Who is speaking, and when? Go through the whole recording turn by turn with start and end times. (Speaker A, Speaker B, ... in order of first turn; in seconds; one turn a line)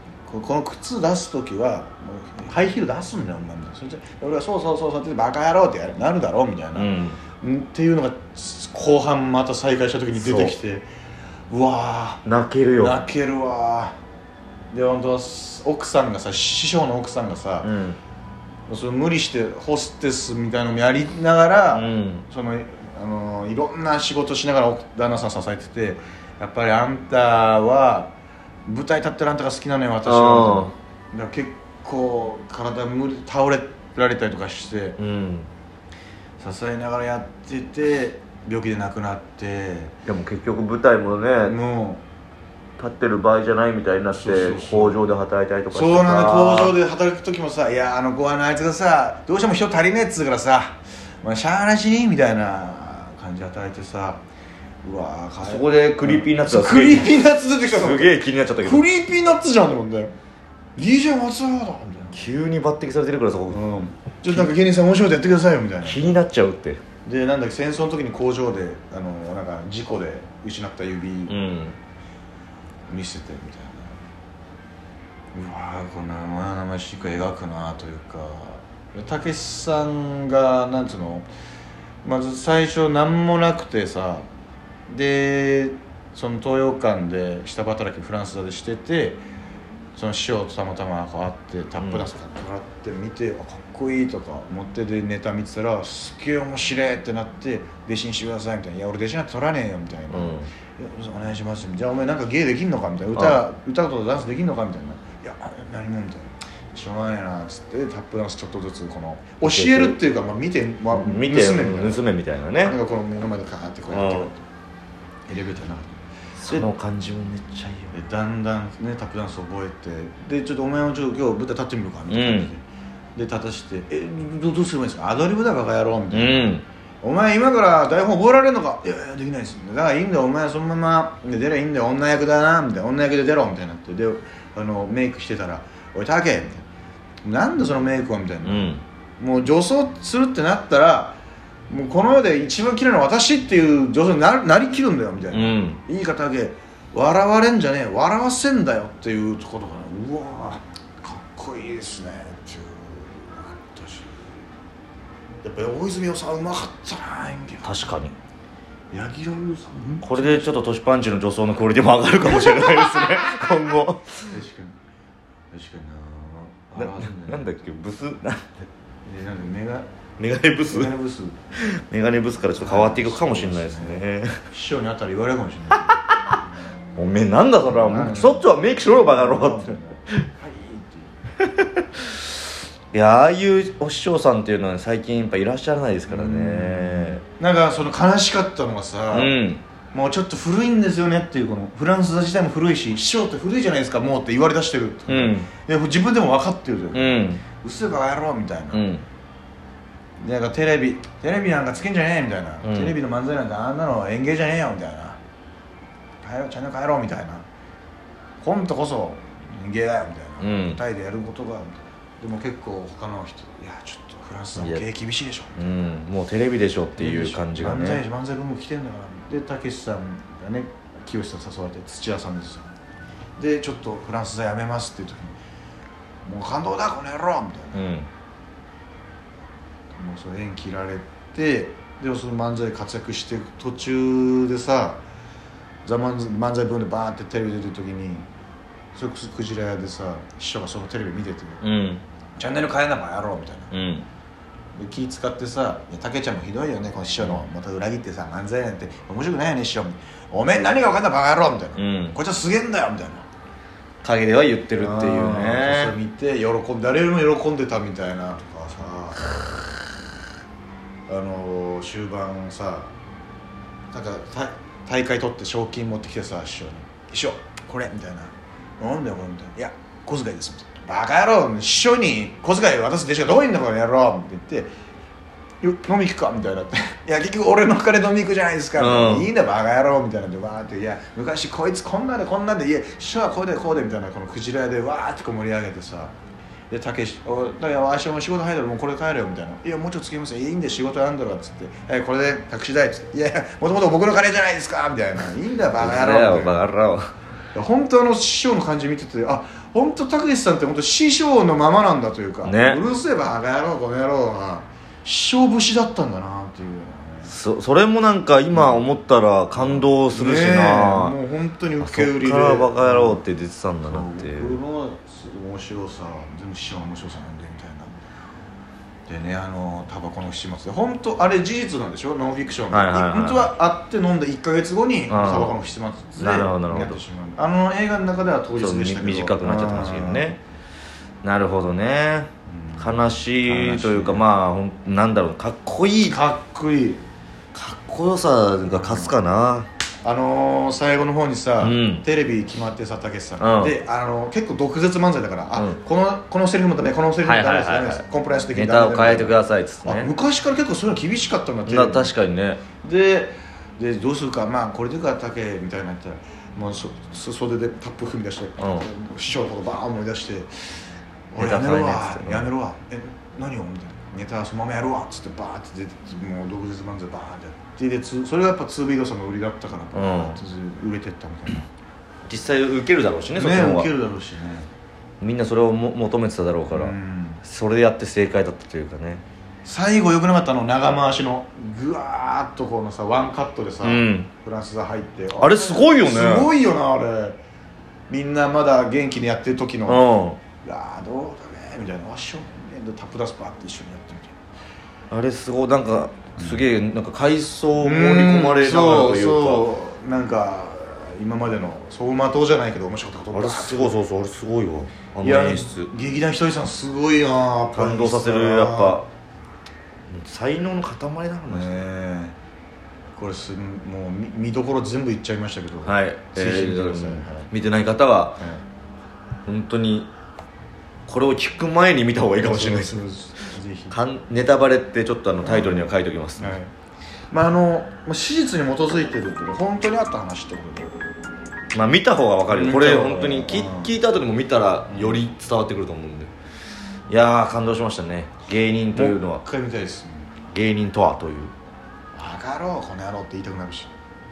Speaker A: 0.3-10.9
Speaker B: 6.8-7.2
Speaker B: 10.2-10.6
Speaker A: 11.5-12.2
Speaker B: 12.2-13.1
Speaker A: 12.8-14.0
Speaker A: 14.7-17.7
Speaker B: 17.6-18.0
Speaker A: 18.7-28.1
Speaker B: 21.7-22.3
Speaker A: 28.7-35.0
Speaker B: 30.1-30.7
Speaker B: 35.0-35.5
Speaker A: 36.4-40.0
Speaker B: 40.0-41.6
Speaker A: 41.4-42.0
Speaker B: 42.8-46.8
Speaker A: 44.1-45.0
Speaker A: 45.7-54.2
Speaker A: 54.8-60.1
Speaker B: 55.4-58.9
Speaker A: 60.8-62.2
Speaker B: 62.1-63.6
Speaker A: 63.5-66.0
Speaker B: 65.8-66.8
Speaker A: 67.0-71.4
Speaker B: 71.3-71.8
Speaker A: 72.9-74.0
Speaker A: 75.3-81.3
Speaker A: 82.0-84.3
Speaker A: 84.9-89.2
Speaker A: 90.0-112.0
Speaker B: 91.8-92.1
Speaker B: 100.1-100.5
Speaker B: 103.2-103.4
Speaker B: 109.4-110.0
Speaker B: 110.9-112.8
Speaker A: 112.6-114.4
Speaker B: 113.9-114.3
Speaker A: 115.3-116.7
Speaker B: 116.4-117.9
Speaker A: 117.9-122.6
Speaker B: 122.1-122.5
Speaker A: 123.2-136.7
Speaker B: 126.1-126.7
Speaker A: 137.2-141.2
Speaker B: 138.4-138.8
Speaker A: 141.7-154.2
Speaker B: 145.3-145.8
Speaker A: 155.4-157.8
Speaker B: 157.6-158.2
Speaker A: 158.9-160.5
Speaker B: 160.0-164.3
Speaker A: 164.3-164.8
Speaker A: 165.5-167.6
Speaker B: 166.8-168.4
Speaker A: 169.1-169.9
Speaker B: 170.2-170.9
Speaker A: 170.7-171.4
Speaker B: 171.5-174.4
Speaker A: 172.6-175.9
Speaker B: 177.0-180.3
Speaker A: 177.7-178.5
Speaker A: 179.0-181.2
Speaker B: 181.6-182.0
Speaker B: 182.9-187.2
Speaker A: 186.1-189.4
Speaker B: 189.1-189.6
Speaker A: 189.9-198.8
Speaker B: 195.1-195.5
Speaker B: 196.9-197.4
Speaker B: 198.7-199.1
Speaker A: 200.2-205.2
Speaker B: 202.6-203.0
Speaker A: 206.2-207.4
Speaker A: 208.4-215.6
Speaker B: 210.4-210.8
Speaker B: 214.6-214.8
Speaker B: 215.6-218.0
Speaker A: 217.0-222.7
Speaker A: 223.4-225.4
Speaker A: 226.2-227.9
Speaker B: 227.7-228.1
Speaker A: 229.9-235.0
Speaker A: 235.8-238.3
Speaker A: 238.9-241.6
Speaker B: 241.6-242.0
Speaker A: 242.4-243.7
Speaker B: 243.7-244.1
Speaker A: 244.8-253.3
Speaker B: 251.8-252.2
Speaker B: 254.0-255.9
Speaker A: 254.8-259.8
Speaker A: 261.1-262.9
Speaker A: 263.9-274.7
Speaker A: 275.6-286.1
Speaker B: 278.8-279.3
Speaker A: 286.7-296.6
Speaker B: 295.8-297.1
Speaker A: 297.6-307.3
Speaker B: 302.4-302.8
Speaker B: 307.2-311.2
Speaker A: 308.5-308.9
Speaker A: 309.5-313.2
Speaker B: 311.8-314.6
Speaker A: 313.9-317.9
Speaker A: 319.1-330.4
Speaker B: 322.7-323.5
Speaker B: 325.1-325.6
Speaker B: 326.2-327.0
Speaker B: 328.6-330.4
Speaker B: 331.2-336.2
Speaker A: 332.5-334.2
Speaker A: 336.1-337.0
Speaker B: 337.5-339.7
Speaker A: 338.7-339.2
Speaker A: 340.0-352.1
Speaker B: 341.6-342.1
Speaker B: 343.4-343.8
Speaker B: 347.2-350.1
Speaker B: 351.7-352.6
Speaker A: 352.8-360.7
Speaker B: 358.6-358.9
Speaker A: 361.3-371.7
Speaker B: 361.4-362.5
Speaker B: 369.9-370.4
Speaker B: 372.3-373.9
Speaker A: 373.4-374.7
Speaker B: 375.2-379.2
Speaker A: 376.7-377.4
Speaker A: 379.6-387.4
Speaker B: 383.8-384.3
Speaker B: 385.4-386.5
Speaker A: 388.1-390.1
Speaker B: 389.9-390.4
Speaker A: 390.6-394.4
Speaker B: 395.1-399.7
Speaker A: 396.4-396.6
Speaker A: 397.8-404.0
Speaker B: 403.3-405.9
Speaker A: 405.2-409.0
Speaker B: 407.7-409.1
Speaker B: 410.1-411.8
Speaker A: 411.5-412.4
Speaker A: 413.2-417.5
Speaker B: 415.8-418.4
Speaker A: 418.4-418.6
Speaker B: 419.5-420.1
Speaker B: 421.1-423.1
Speaker A: 422.4-424.0
Speaker B: 423.9-426.6
Speaker A: 425.4-426.7
Speaker A: 427.3-430.9
Speaker B: 431.7-436.3
Speaker A: 432.5-434.0
Speaker A: 434.9-435.3
Speaker B: 437.1-439.4
Speaker A: 438.9-440.3
Speaker B: 440.5-441.5
Speaker A: 442.1-443.9